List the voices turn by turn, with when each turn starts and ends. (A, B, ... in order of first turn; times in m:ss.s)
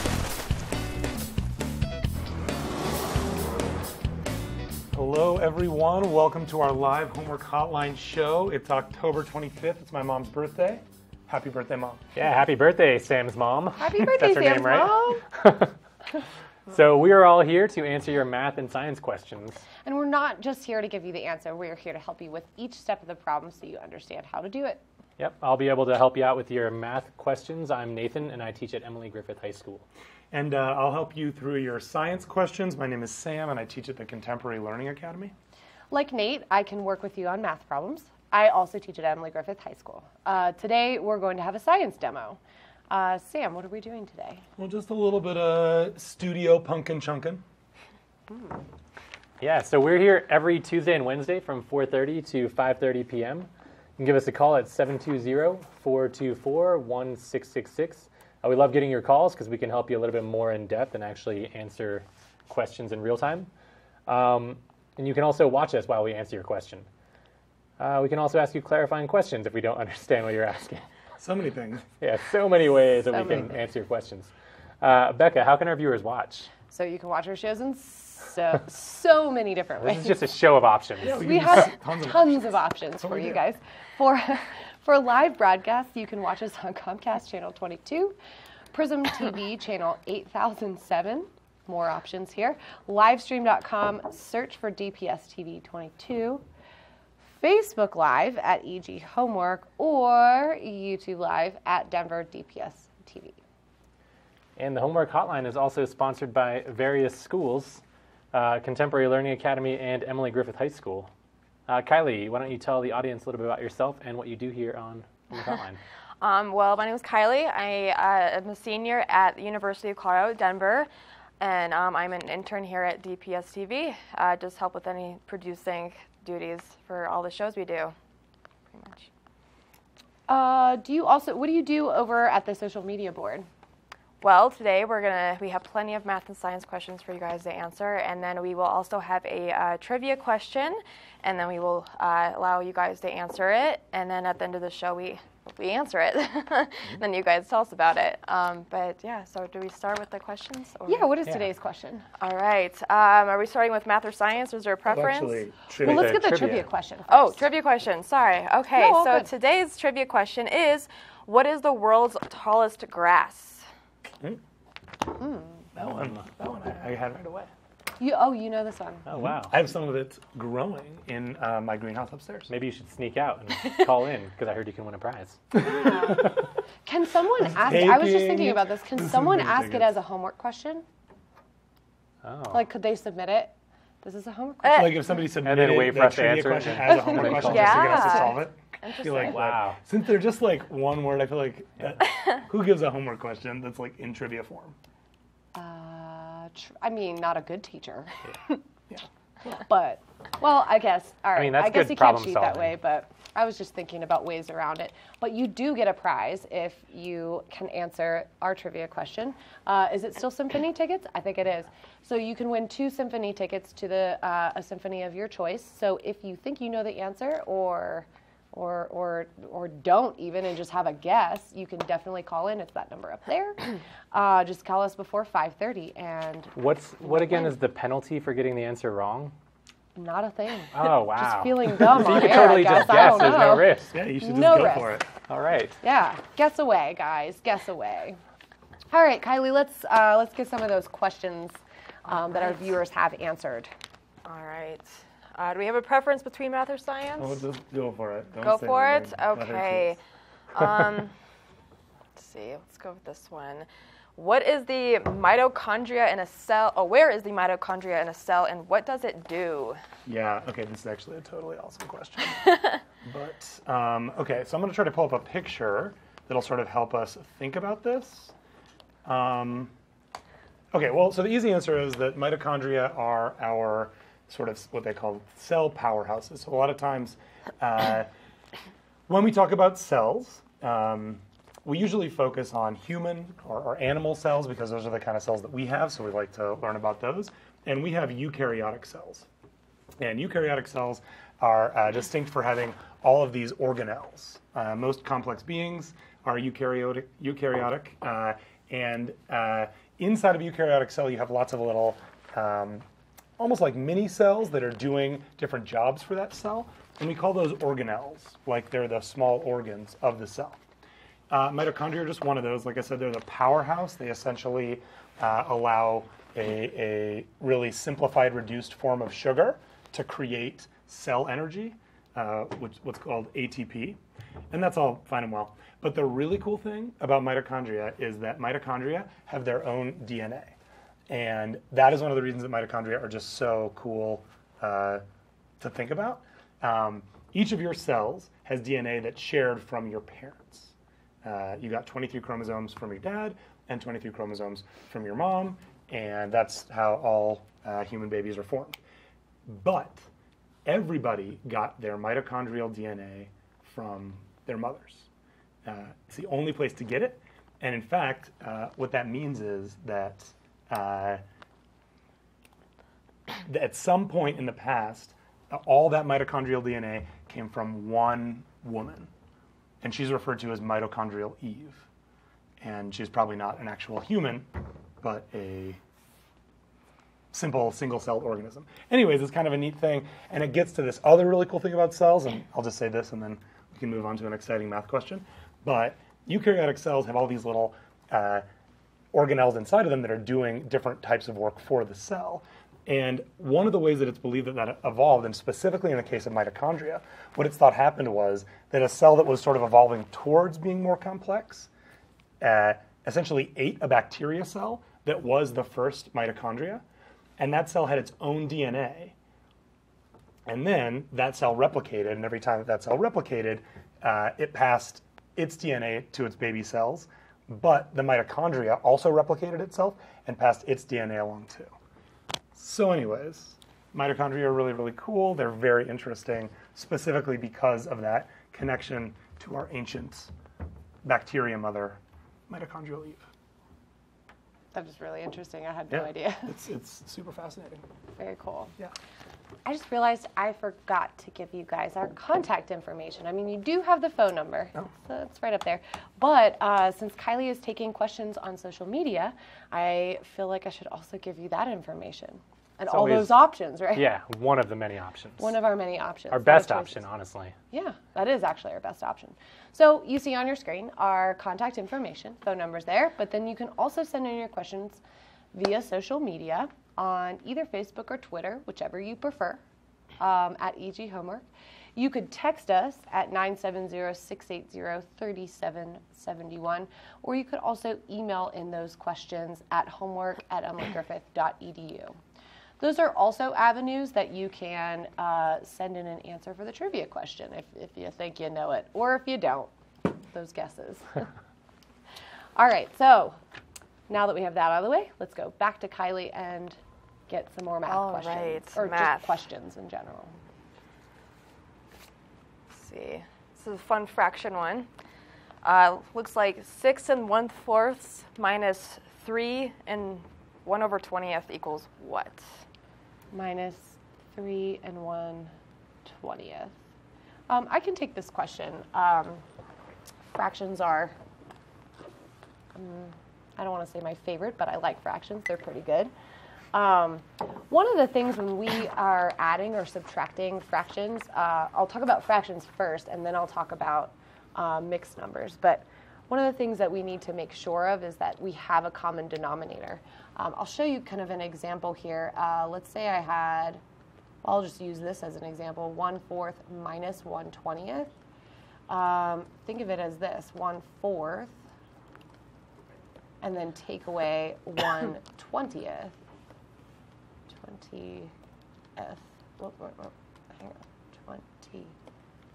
0:04.9-0:12.0 A
0:12.2-0:15.7 B
0:13.8-0:15.2 C
0:16.7-0:19.6 B
0:19.8-0:24.8 C
0:25.2-0:29.9 B
0:30.3-0:35.3 A
0:35.9-0:42.4 C
0:42.9-0:44.4 C
0:44.6-0:47.4 A
0:49.4-1:03.5 B
1:04.1-1:06.9 B
1:07.8-1:10.9 B
1:11.2-1:11.8 A
1:12.0-1:16.5 B
1:13.1-1:13.5 C
1:16.7-1:20.2 C
1:19.8-1:21.6 B
1:21.0-1:23.4 A
1:21.0-1:28.2 C
1:28.7-1:36.4 C
1:37.2-1:43.4 C
1:44.6-1:47.8 B
1:48.3-1:51.1 B
1:51.7-1:55.8 B
1:56.2-2:00.9 D
2:01.4-2:08.0 D
2:08.7-2:09.1 D
2:10.3-2:13.5 C
2:14.2-2:31.1 D
2:30.9-2:32.1 C
2:32.2-2:35.4 D
2:34.9-2:36.6 A
2:35.8-2:37.4 C
2:35.8-2:36.7 B
2:37.1-2:43.7 D
2:38.8-2:39.3 C
2:45.2-2:45.5 C
2:45.8-2:47.5 A
2:48.0-2:49.0 C
2:49.1-2:49.6 B
2:49.1-2:52.5 A
2:52.5-2:55.6 B
2:55.6-2:56.3 A
2:55.6-2:56.3 C
2:56.9-3:00.8 C
2:57.5-3:00.0 A
3:02.2-3:02.7 B
3:02.5-3:05.1 C
3:04.7-3:14.8 A
3:05.4-3:07.9 B
3:06.9-3:08.4 C
3:07.4-3:09.4 D
3:09.2-3:09.8 B
3:15.6-3:18.6 C
3:19.5-3:47.5 C
3:21.4-3:22.8 B
3:46.6-3:49.3 B
3:50.0-3:55.0 C
3:50.7-3:54.0 B
3:53.9-3:55.1 A
3:55.3-3:55.8 B
3:55.8-3:58.2 C
3:58.9-4:03.7 C
4:04.3-4:07.4 D
4:07.2-4:10.0 A
4:08.4-4:10.0 D
4:10.5-4:11.1 D
4:12.2-4:19.8 D
4:20.1-4:28.3 A
4:29.0-4:29.7 A
4:30.7-4:38.1 A
4:39.1-4:49.3 A
4:50.0-5:02.8 A
5:03.4-5:10.6 A
5:11.3-5:24.0 A
5:24.5-5:30.5 A
5:31.1-5:35.0 A
5:35.6-5:48.8 A
5:49.5-5:50.1 A
5:50.7-5:55.1 A
5:55.6-6:01.2 A
6:03.4-6:09.1 A
6:09.8-6:11.8 A
6:12.6-6:14.5 A
6:15.0-6:15.8 A
6:17.3-6:28.4 A
6:29.1-6:41.7 A
6:42.4-6:46.8 A
6:47.4-6:49.2 A
6:50.5-7:01.8 A
7:02.5-7:10.3 A
7:11.0-7:13.2 A
7:14.7-7:16.6 C
7:15.9-7:17.9 A
7:18.2-7:18.7 C
7:19.7-7:34.0 C
7:32.9-7:35.6 B
7:35.4-7:37.0 C
7:36.3-7:37.6 B
7:37.7-7:45.0 C
7:45.5-7:49.6 C
7:50.2-8:02.2 C
8:02.8-8:09.7 C
8:10.3-8:11.2 C
8:12.6-8:13.4 C
8:14.1-8:16.8 C
8:17.3-8:20.4 C
8:17.9-8:19.3 D
8:22.7-8:24.9 D
8:25.6-8:32.5 D
8:33.3-8:35.5 C
8:36.1-8:36.7 C
8:37.5-8:39.4 C
8:40.3-8:41.2 C
8:42.8-8:46.1 C
8:46.7-9:03.8 C
9:04.4-9:08.1 C
9:08.9-9:11.6 C
9:13.4-9:16.1 C
9:17.5-9:18.3 C
9:19.0-9:21.9 C